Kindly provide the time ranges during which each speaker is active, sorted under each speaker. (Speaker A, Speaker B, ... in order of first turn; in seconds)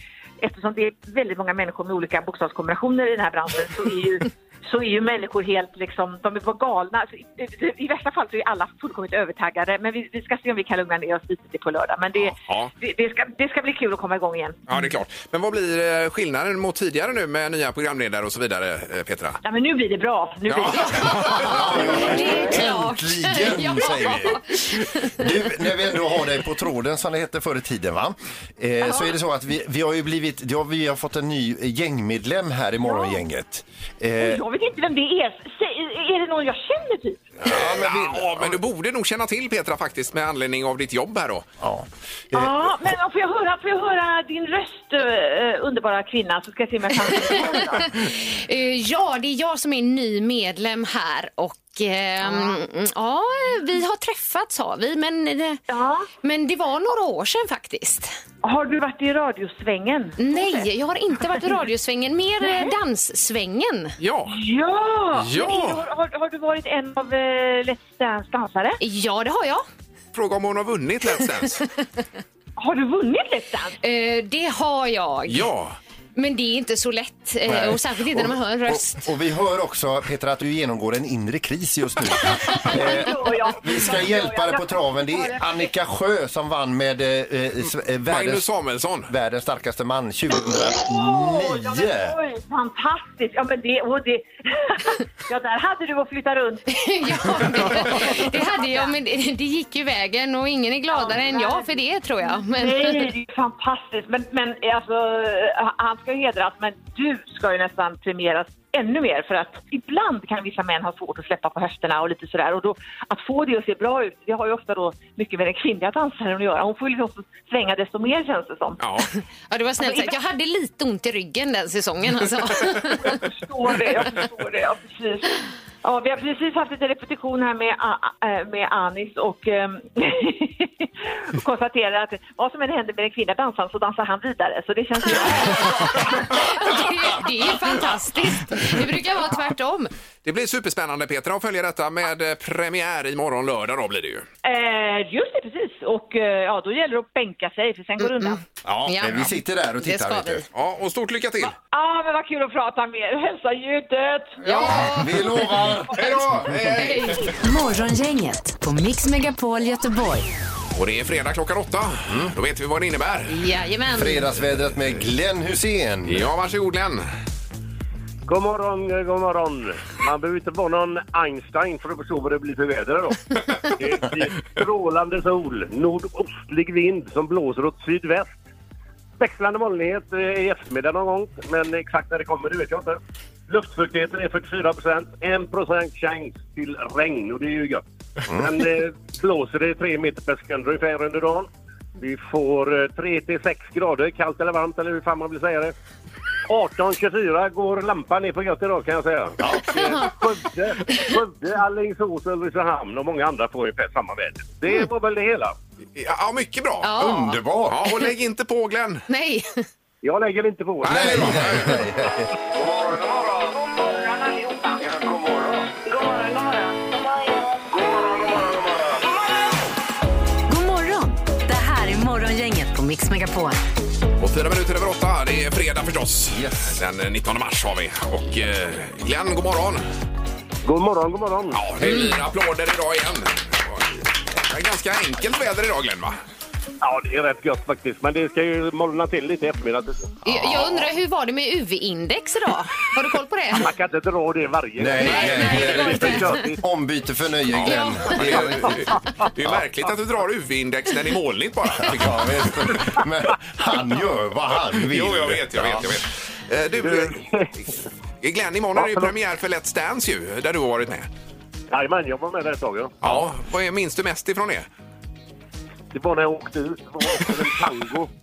Speaker A: 0.4-14.6, 19.4-21.8, 32.8-33.2, 34.2-37.3, 42.3-47.9, 52.2-52.6, 55.7-56.1, 58.4-60.7, 62.4-62.8, 64.3-68.8, 72.6-73.8, 82.5-85.7, 90.8-99.0, 100.9-118.8, 119.8-120.2, 122.9-136.4, 144.4-148.4, 151.4-154.9
Speaker B: 12.2-12.7, 14.7-19.4, 20.5-21.7, 37.4-41.5, 64.0-64.4, 65.2-65.8, 70.1-71.6, 75.3-75.8, 88.1-89.1, 118.8-119.1, 140.2-144.3, 150.5-151.5, 154.5-155.0, 155.9-157.3, 160.7-163.3, 166.1-167.1, 206.0-206.9, 207.7-209.0, 210.8-211.8, 224.2-229.8, 231.5-236.2, 247.5-252.8, 254.8-257.3, 258.2-261.1, 263.0-264.7
Speaker C: 21.1-25.2, 47.1-55.6, 56.2-58.2, 60.2-64.0, 68.8-69.7, 73.8-75.5, 76.2-79.0, 96.7-103.1, 119.5-123.2, 136.3-139.9, 148.0-150.5, 154.4-155.1, 156.8-157.2, 163.3-164.3, 206.8-207.9, 209.1-209.7, 231.8-232.2, 240.2-243.7, 245.0-246.4, 247.6-248.2
Speaker D: 21.4-34.4, 37.4-38.6, 41.6-42.5, 77.5-88.5, 89.1-92.2, 148.7-150.4, 154.8-156.1, 162.1-162.3, 163.9-166.3, 199.4-199.9, 207.0-207.8, 210.9-212.3, 218.0-218.5, 226.3-226.8, 244.8-248.8, 251.8-255.9
Speaker E: 157.4-160.3, 220.5-223.6
Speaker F: 168.3-173.2, 173.8-178.4, 179.2-195.7, 196.5-205.6, 210.0-211.5, 230.6-231.7, 236.8-240.1, 243.6-246.6, 256.8-257.5, 258.8-259.1, 261.7-263.1, 265.9-268.1